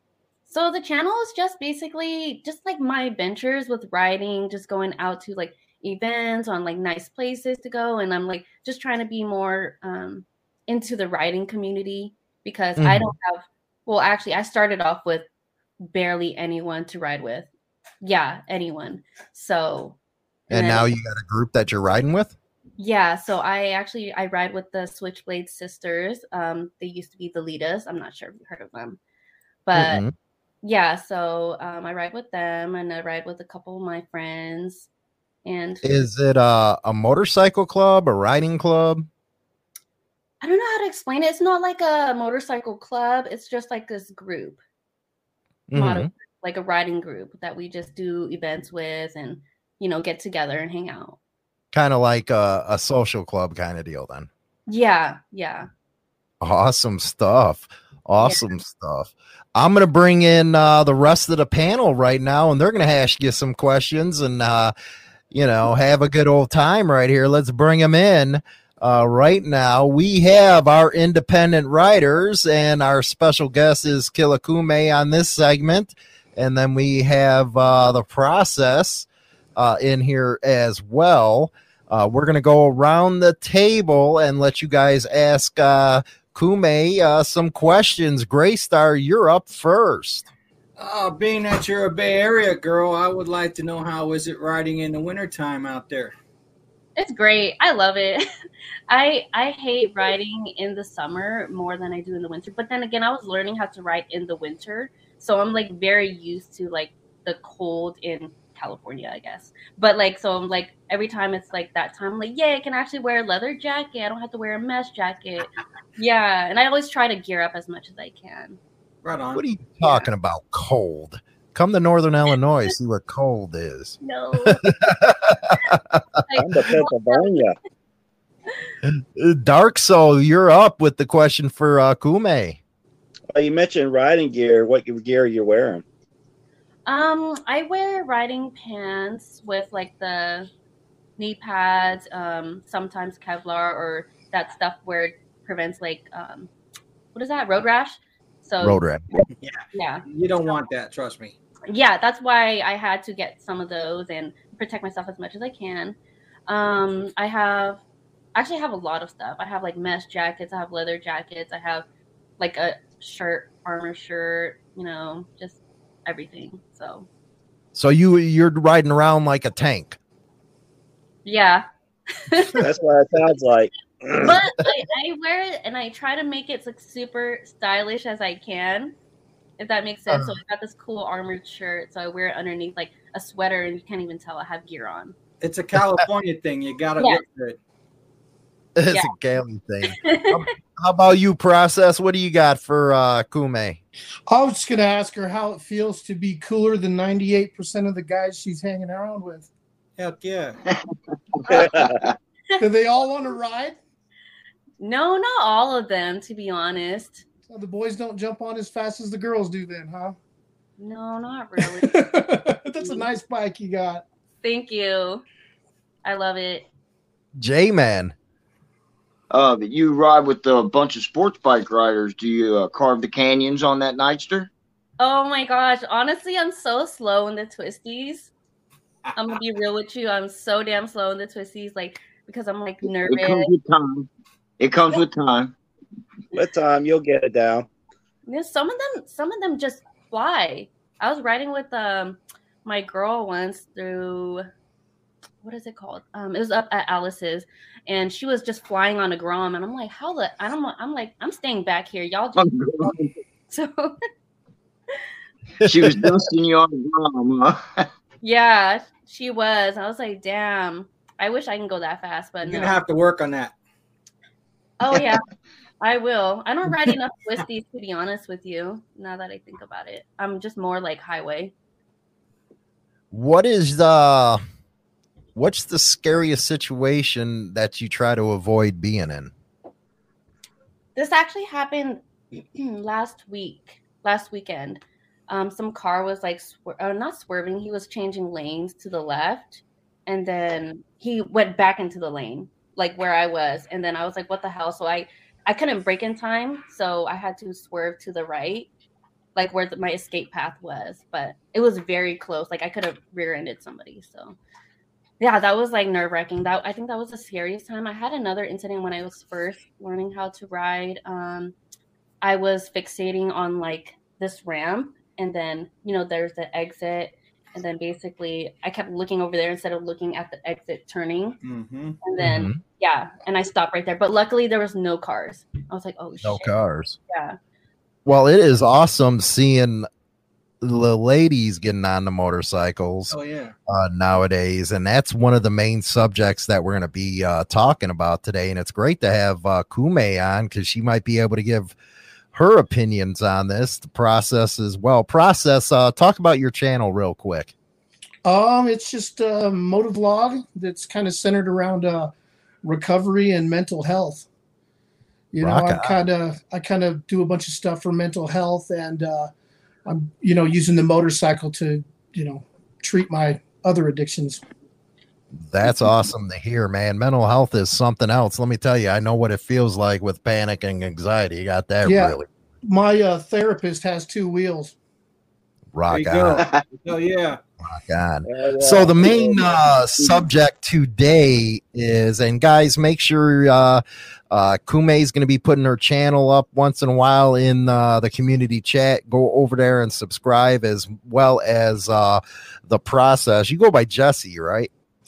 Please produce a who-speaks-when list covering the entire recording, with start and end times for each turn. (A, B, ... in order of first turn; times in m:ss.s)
0:00.5-0:15.2 A
0:12.8-0:13.1 B
0:15.8-0:17.5 A
0:18.0-0:20.0 A
0:20.5-0:22.4 B
0:20.5-0:20.8 A
0:22.8-0:29.0 A
0:29.7-0:30.0 A
0:29.7-0:30.1 B
0:30.6-0:34.9 A
0:35.4-0:36.0 A
0:35.8-0:39.1 B
0:40.4-0:44.6 A
0:45.7-0:46.1 B
0:45.8-0:51.2 A
0:51.7-0:54.3 B
0:54.7-0:55.7 A
0:56.4-1:04.7 B
0:58.2-0:58.5 A
1:05.3-1:30.3 B
1:30.8-1:36.1 C
1:37.0-1:38.2 A
1:38.9-1:58.6 A
1:59.0-1:59.4 C
1:59.3-2:06.0 B
1:59.8-2:00.1 A
2:04.0-2:04.7 A
2:06.3-2:07.2 A
2:06.4-2:07.6 D
2:08.8-2:12.6 B
2:13.3-2:15.8 D
2:16.9-2:20.5 A
2:21.2-2:26.5 A
2:27.1-2:28.8 A
2:28.6-2:29.1 B
2:29.4-2:31.4 C
2:29.7-2:30.0 A
2:31.7-2:36.0 A
2:36.5-2:37.8 A
2:38.4-2:41.8 A
2:42.4-2:47.1 A
2:47.7-2:50.0 B
2:51.2-2:52.6 A
2:52.6-2:54.4 D
2:54.1-2:59.0 A
2:59.6-3:05.1 A
3:00.1-3:00.4 B
3:05.4-3:07.6 C
3:08.8-3:13.8 B
3:09.9-3:10.4 A
3:14.3-3:19.5 E
3:20.0-3:20.6 C
3:20.6-3:22.1 F
3:21.5-3:21.9 D
3:22.6-3:23.8 E
3:24.8-3:27.2 A
3:27.5-3:30.2 E
3:30.8-3:32.0 A
3:31.6-3:34.0 E
3:34.4-3:35.2 A
3:36.0-3:36.7 A
3:37.4-3:38.1 B
3:39.3-3:44.5 F
3:45.0-3:48.3 A
3:49.1-3:53.5 A
3:52.9-3:55.5 F
3:56.3-3:57.7 D
3:58.2-4:04.5 A
4:05.4-4:14.0 A
4:12.4-4:13.1 F
4:15.6-4:16.0 B
4:15.6-4:17.9 F
4:18.2-4:22.8 A
4:22.4-4:23.5 C
4:24.8-4:25.2 A
4:25.8-4:31.5 A
4:33.1-4:34.4 B
4:35.4-4:39.3 B
4:41.0-4:58.7 A
4:59.4-5:04.4 A
5:05.2-5:11.6 A
5:12.2-5:21.4 A
5:21.4-5:22.0 C
5:22.0-5:26.6 A
5:22.2-5:22.6 B
5:26.2-5:27.0 B
5:27.1-5:27.4 A
5:28.0-5:29.9 B
5:30.6-5:33.2 B
5:33.1-5:33.5 C
5:33.7-5:41.8 B
5:42.3-5:47.5 B
5:48.2-5:54.2 E
5:55.3-5:59.3 E
5:55.4-5:56.0 B
5:59.8-6:04.4 E
6:05.3-6:12.3 B
6:11.8-6:14.8 E
6:15.7-6:16.4 B
6:15.9-6:17.4 C
6:17.6-6:34.7 B
6:18.2-6:19.6 D